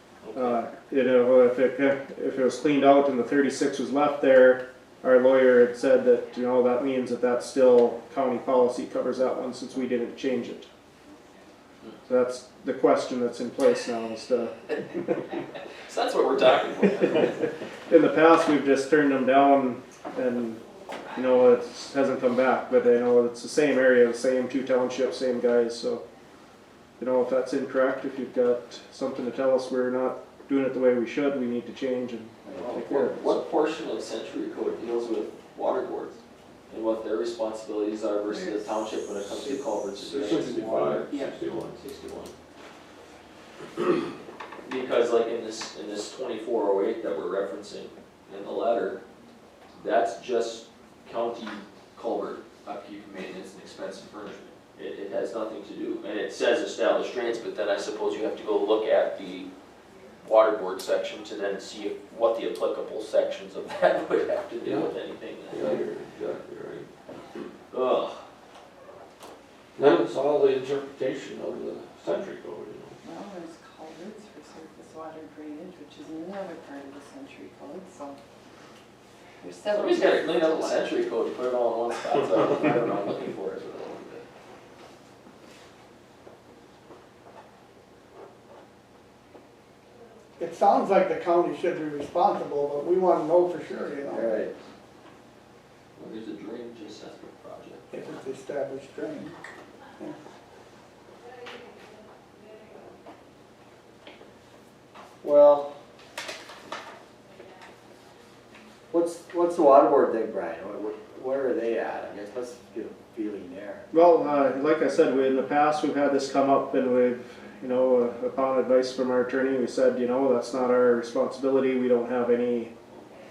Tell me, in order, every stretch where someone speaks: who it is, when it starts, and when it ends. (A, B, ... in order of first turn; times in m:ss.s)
0:00.2-0:00.6 A
0:00.3-0:10.7 B
0:12.1-0:15.2 B
0:15.9-0:17.5 A
0:17.0-0:26.0 B
0:27.0-0:33.4 B
0:32.6-0:36.2 A
0:36.7-0:41.2 A
0:38.3-0:38.6 C
0:40.0-0:41.8 D
0:41.8-0:42.3 A
0:44.6-0:49.0 A
0:49.8-0:59.5 A
1:00.2-1:05.7 A
1:04.6-1:04.9 D
1:05.5-1:06.9 D
1:07.7-1:08.2 A
1:09.8-1:13.0 D
1:13.0-1:18.2 E
1:19.4-1:21.0 E
1:19.7-1:24.3 A
1:30.4-1:34.5 C
1:34.1-1:34.5 F
1:36.0-1:38.1 A
1:37.9-1:39.4 C
1:45.2-1:45.7 F
1:48.9-1:53.9 F
1:53.9-2:02.7 B